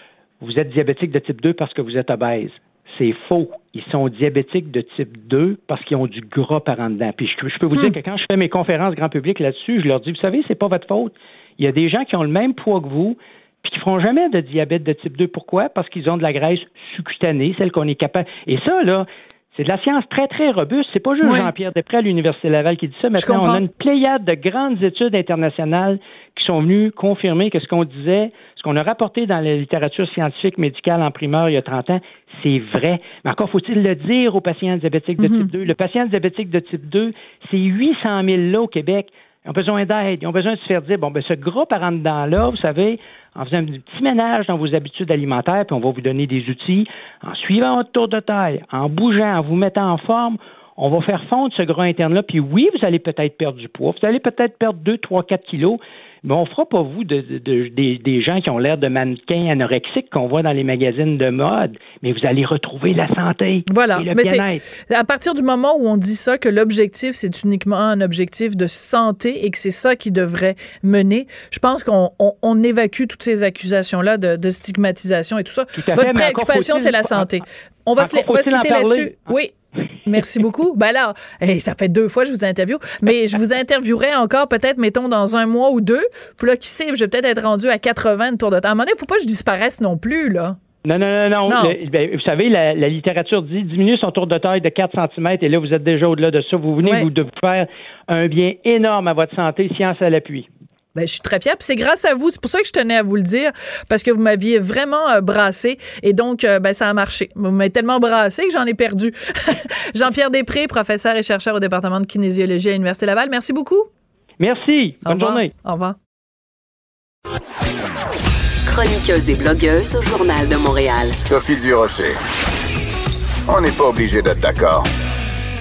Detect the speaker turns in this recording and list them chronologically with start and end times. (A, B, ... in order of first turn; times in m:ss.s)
0:00.4-1:04.6 A
0:21.2-0:21.5 B
0:23.2-0:23.6 B
0:35.2-0:35.5 B
1:03.7-1:19.5 B
1:15.8-1:17.4 A
1:18.0-1:19.2 A
1:20.1-1:30.6 B
1:30.8-1:40.5 A
1:31.5-1:31.8 B
1:41.0-1:53.9 B
1:54.4-1:55.5 A
1:55.0-1:56.0 B
1:58.6-2:01.2 C
2:01.2-2:02.2 D
2:03.5-2:04.9 D